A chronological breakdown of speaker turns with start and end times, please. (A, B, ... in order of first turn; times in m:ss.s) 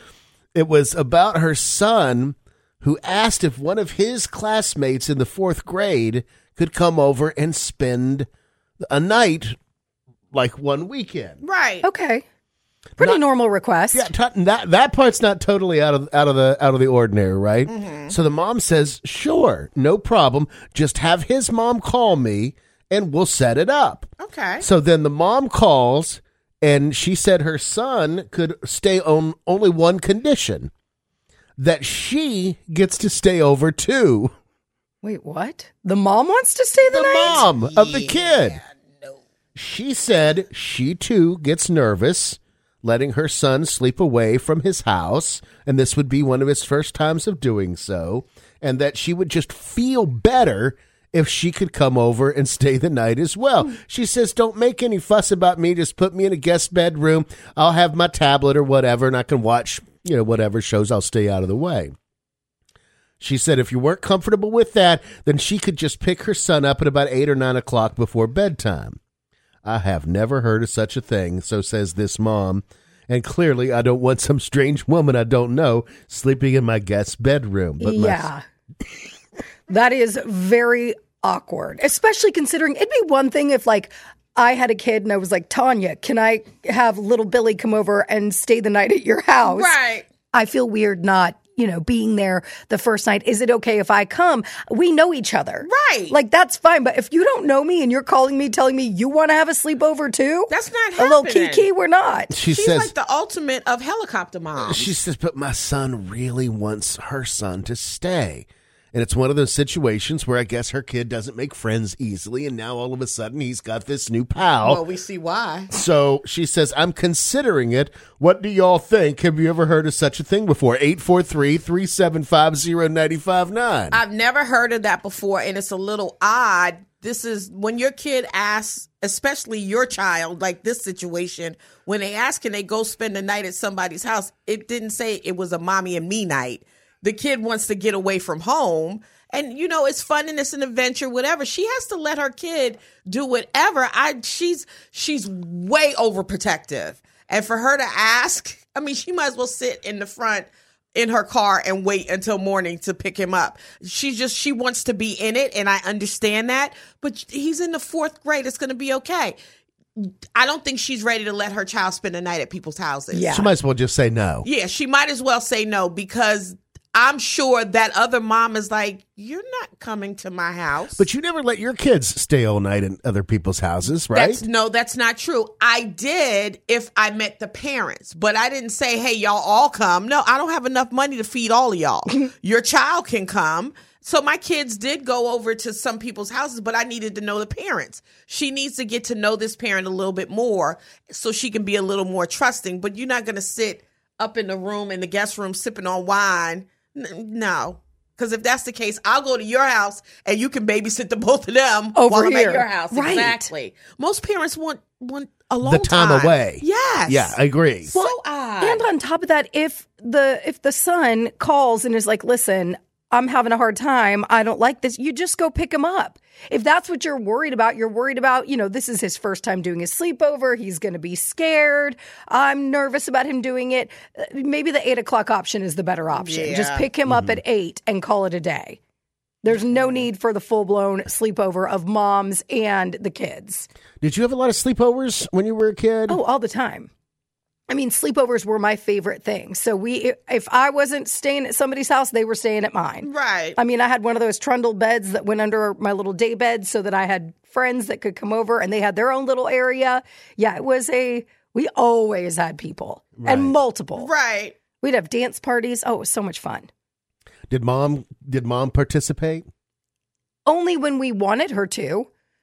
0:00.6-0:08.3 A
0:08.8-0:09.6 A
0:10.3-0:11.4 A
0:11.4-0:11.9 B
0:11.8-0:12.2 C
0:13.0-0:14.1 C
0:13.9-0:30.7 A
0:17.7-0:18.1 B
0:24.2-0:24.6 B
0:31.6-0:34.3 A
0:35.0-0:37.4 C
0:36.9-0:38.6 A
0:37.2-0:39.2 B
0:39.6-1:01.9 A
1:03.2-1:09.0 A
1:09.6-1:18.3 A
1:17.8-1:18.4 C
1:19.7-1:29.8 C
1:29.4-1:30.1 B
1:30.3-1:42.3 C
1:35.6-1:36.2 B
1:40.5-1:41.7 B
1:42.3-1:42.9 A
1:42.5-1:45.0 B
1:44.6-1:54.8 A
1:54.6-1:55.7 B
1:55.7-2:04.0 A
2:03.9-2:39.4 B
2:40.0-2:43.5 B
2:43.3-2:44.5 A
2:44.4-2:51.1 B
2:51.0-2:54.4 A
2:54.1-3:27.4 B
3:22.0-3:23.5 C
3:25.6-3:27.9 A
3:27.9-3:28.9 B
3:27.9-3:48.8 C
3:46.1-3:46.9 B
3:47.1-3:47.4 A
3:49.4-3:53.7 C
3:54.0-3:56.2 A
3:56.1-3:56.9 C
3:57.7-4:14.1 C
4:03.0-4:03.6 B
4:13.2-4:13.6 A
4:14.0-4:14.6 B
4:14.8-4:16.7 C
4:17.5-4:19.4 A
4:20.5-4:22.1 C